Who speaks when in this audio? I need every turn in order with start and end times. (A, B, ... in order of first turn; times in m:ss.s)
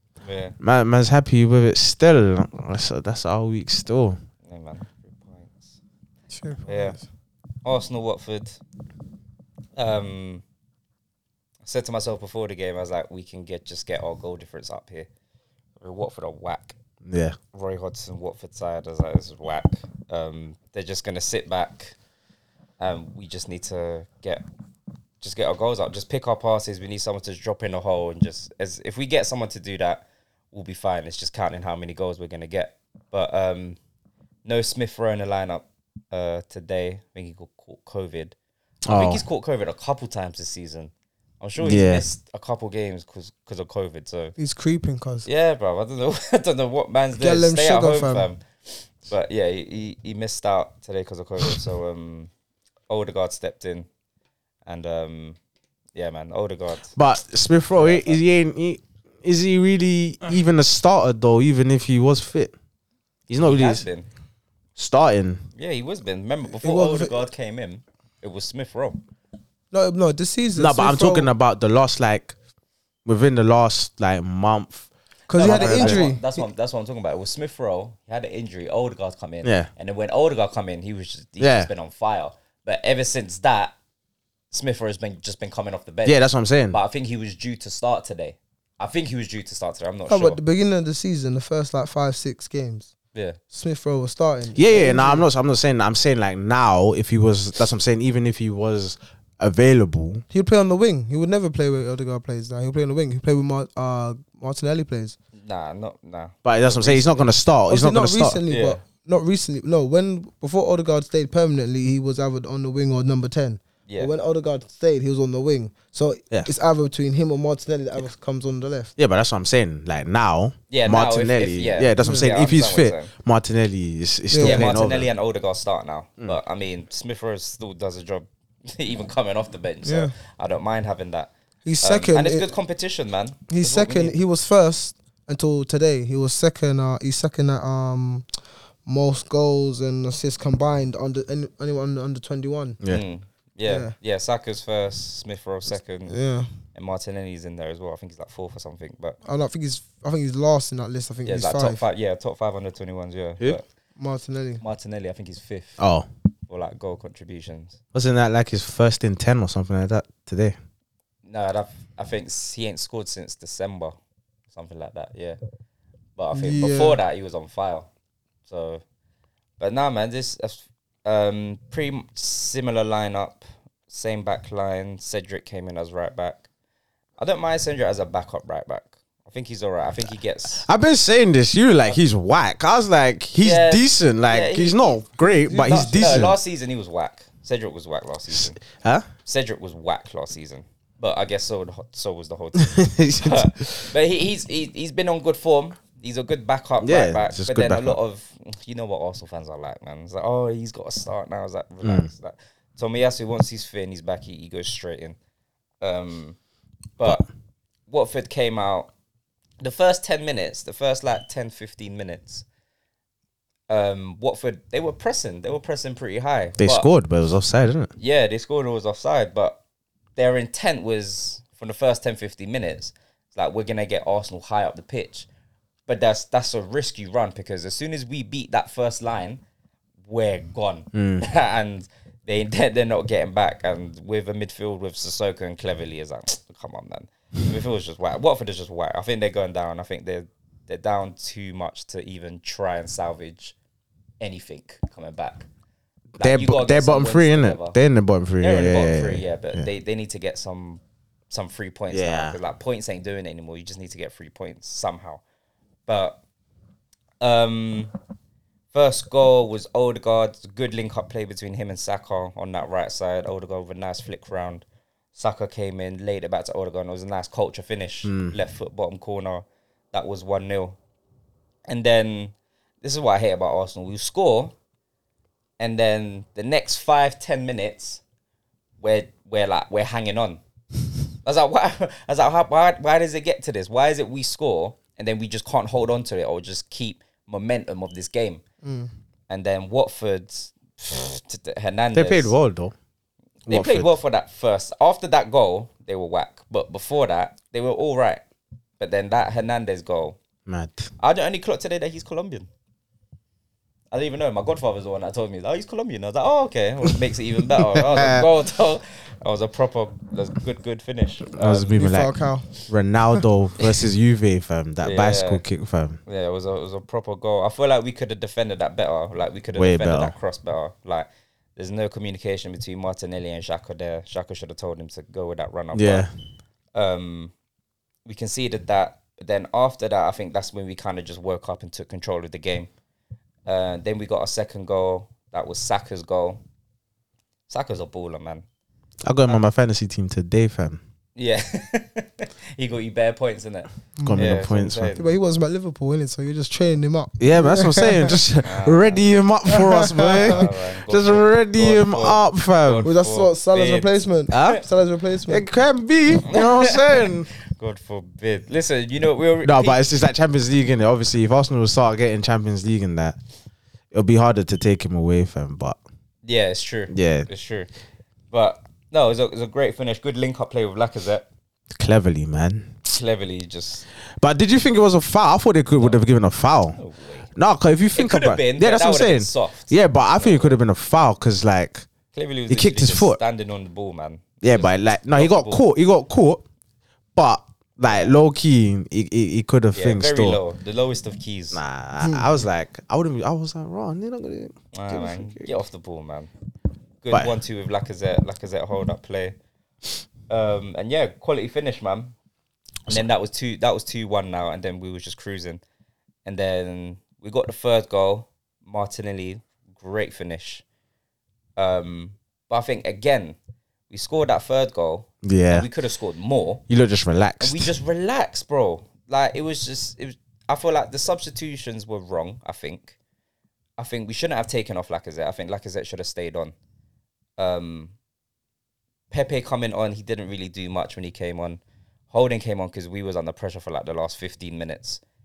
0:00.2-0:00.6 A
0:00.6-0:04.2 B
0:04.5-0:05.7 A
0:06.3-0:07.0 C
0:06.7-0:07.0 A
0:07.6-0:08.6 A
0:09.8-0:10.4 A
0:11.6-0:15.1 A
0:15.8-0:16.8 A
0:17.0-0:17.4 B
0:17.5-0:22.0 A
0:22.8-0:24.4 A
0:25.2-0:33.8 A
0:34.4-0:38.3 A
0:38.8-0:39.2 B
0:38.9-0:44.4 A
0:41.6-0:42.0 B
0:44.4-0:45.3 C
0:45.2-0:52.3 A
0:47.2-0:48.3 C
0:52.9-0:53.9 A
0:54.7-0:55.4 A
0:56.0-0:56.9 A
0:57.0-1:02.5 B
0:57.8-0:58.2 A
1:03.3-1:03.9 B
1:03.4-1:04.1 A
1:04.8-1:05.4 B
1:05.6-1:09.0 A
1:06.6-1:07.1 C
1:09.7-1:11.3 C
1:10.6-1:12.3 B
1:13.0-1:14.9 B
1:15.3-1:16.4 C
1:15.4-1:23.7 A
1:15.4-1:16.1 B
1:19.4-1:19.7 B
1:21.4-1:21.7 B
1:24.5-1:30.4 A
1:26.0-1:26.8 B
1:30.1-1:32.9 C
1:33.1-1:33.4 A
1:33.5-1:35.3 C
1:34.6-1:40.2 B
1:40.3-1:45.2 C
1:45.4-1:47.3 A
1:46.4-1:48.4 B
1:47.7-1:58.9 C
1:48.5-1:48.8 A
1:59.0-2:05.1 B
2:00.7-2:03.1 A
2:02.0-2:02.3 C
2:04.3-2:04.6 C
2:04.4-2:14.2 A
2:09.8-2:10.1 C
2:11.6-2:12.5 C
2:13.5-2:18.3 C
2:18.9-2:22.8 C
2:22.9-2:26.2 A
2:23.7-2:23.9 C
2:26.1-2:26.5 C
2:26.7-2:29.2 A
2:29.2-2:31.8 C
2:31.2-2:33.6 A
2:34.0-2:34.6 C
2:34.6-2:35.8 A
2:35.8-2:36.1 B
2:36.5-2:37.8 A
2:37.9-2:40.6 B
2:41.2-2:44.0 A
2:44.5-2:45.4 A
2:46.2-2:47.9 A
2:46.3-2:47.0 C
2:48.5-2:48.8 A
2:49.6-2:56.5 A
2:57.2-3:00.7 A
3:00.6-3:06.4 B
3:03.4-3:08.6 A
3:05.5-3:06.0 C
3:08.3-3:09.1 B
3:09.3-3:25.2 A
3:12.6-3:13.8 B
3:16.8-3:18.0 B
3:21.8-3:22.1 B
3:25.8-3:26.4 A
3:27.0-3:27.3 A
3:27.9-3:28.9 A
3:29.6-3:32.4 A
3:33.7-3:36.9 A
3:36.6-3:37.9 B
3:38.0-3:39.6 A
3:40.2-3:45.3 A
3:45.9-3:49.4 A
3:50.0-4:03.6 A
3:50.9-3:51.3 B
4:04.2-4:05.5 A
4:06.2-4:07.8 A
4:06.2-4:09.7 B
4:08.4-4:15.2 A
4:11.9-4:12.4 B
4:15.9-4:16.2 A
4:17.2-4:17.9 A
4:18.7-4:24.6 A
4:25.2-4:30.8 A
4:28.0-4:28.4 B
4:31.7-4:34.5 A
4:35.6-4:38.0 A
4:38.8-4:40.4 A
4:41.2-4:48.4 A
4:48.6-4:48.9 C
4:49.3-4:52.3 A
4:52.0-4:52.8 B
4:53.5-4:58.2 A
4:53.5-4:53.9 B
4:58.8-5:00.2 A
5:00.5-5:00.9 B
5:01.0-5:02.5 A
5:03.9-5:11.8 A
5:07.8-5:08.3 B
5:11.4-5:12.2 B
5:11.7-5:12.5 C
5:12.7-5:16.0 B
5:14.8-5:15.4 A
5:16.1-5:26.1 A
5:19.5-5:20.1 B
5:25.7-5:26.1 B
5:26.8-5:27.3 A
5:28.1-5:32.7 A
5:33.4-5:36.4 A
5:37.5-5:38.4 A
5:39.0-5:40.8 B
5:41.2-5:45.1 A
5:44.0-5:44.3 C
5:44.0-5:44.9 B
5:45.0-5:48.2 C
5:47.2-5:52.9 B
5:48.4-5:49.1 A
5:49.5-5:50.4 C
5:50.1-5:53.9 A
5:52.8-5:55.4 C
5:54.3-5:54.6 B
5:55.3-5:57.3 B
5:56.2-5:59.8 A
5:59.4-6:03.2 B
6:03.9-6:05.8 B
6:06.2-6:07.7 A
6:06.9-6:07.3 B
6:08.3-6:11.3 A
6:11.7-6:12.8 B
6:12.9-6:13.8 A
6:14.2-6:16.8 B
6:15.8-6:16.0 A
6:16.8-6:17.3 A
6:17.4-6:21.8 B
6:18.0-6:20.6 A
6:22.1-6:25.6 A
6:22.5-6:23.2 B
6:24.4-6:26.4 B
6:27.2-6:30.4 B
6:27.9-6:28.2 A
6:29.7-6:31.6 A
6:31.5-6:35.5 B
6:32.0-6:32.3 C
6:34.7-6:36.3 A
6:37.0-6:39.4 A
6:40.3-6:42.1 A
6:42.9-6:45.6 A
6:46.2-6:50.6 A
6:51.6-6:53.4 A
6:53.9-6:56.6 A
6:55.2-6:55.7 B
6:56.7-6:57.7 B
6:57.4-7:03.0 A
7:03.8-7:06.6 A
7:07.4-7:07.9 A
7:09.1-7:15.0 A